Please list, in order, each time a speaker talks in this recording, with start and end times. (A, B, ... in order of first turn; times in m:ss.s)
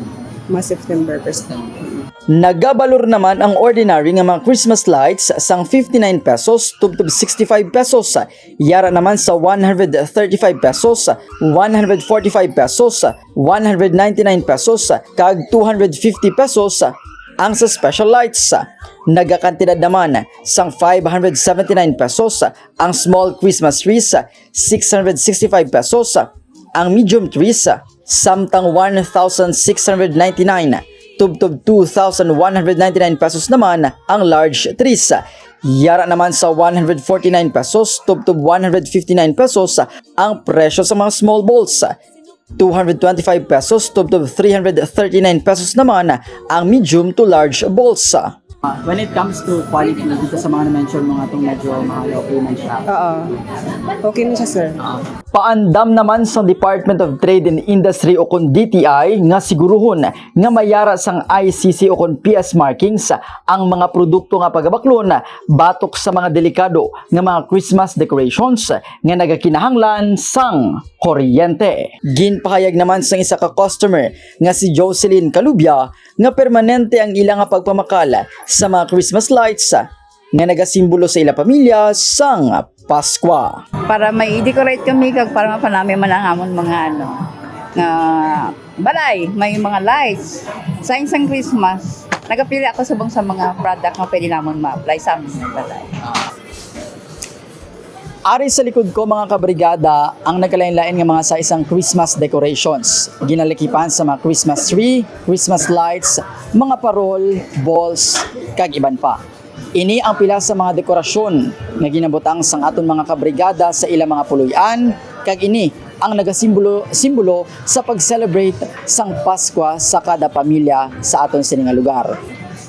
0:00.5-0:02.0 A
0:02.3-0:42.0 B
0:42.6-0:52.8 B
0:52.9-0:53.3 A
0:54.0-0:54.8 A
0:54.8-1:23.6 B
1:23.9-1:36.0 C
1:38.2-1:49.2 B
1:49.8-2:02.2 B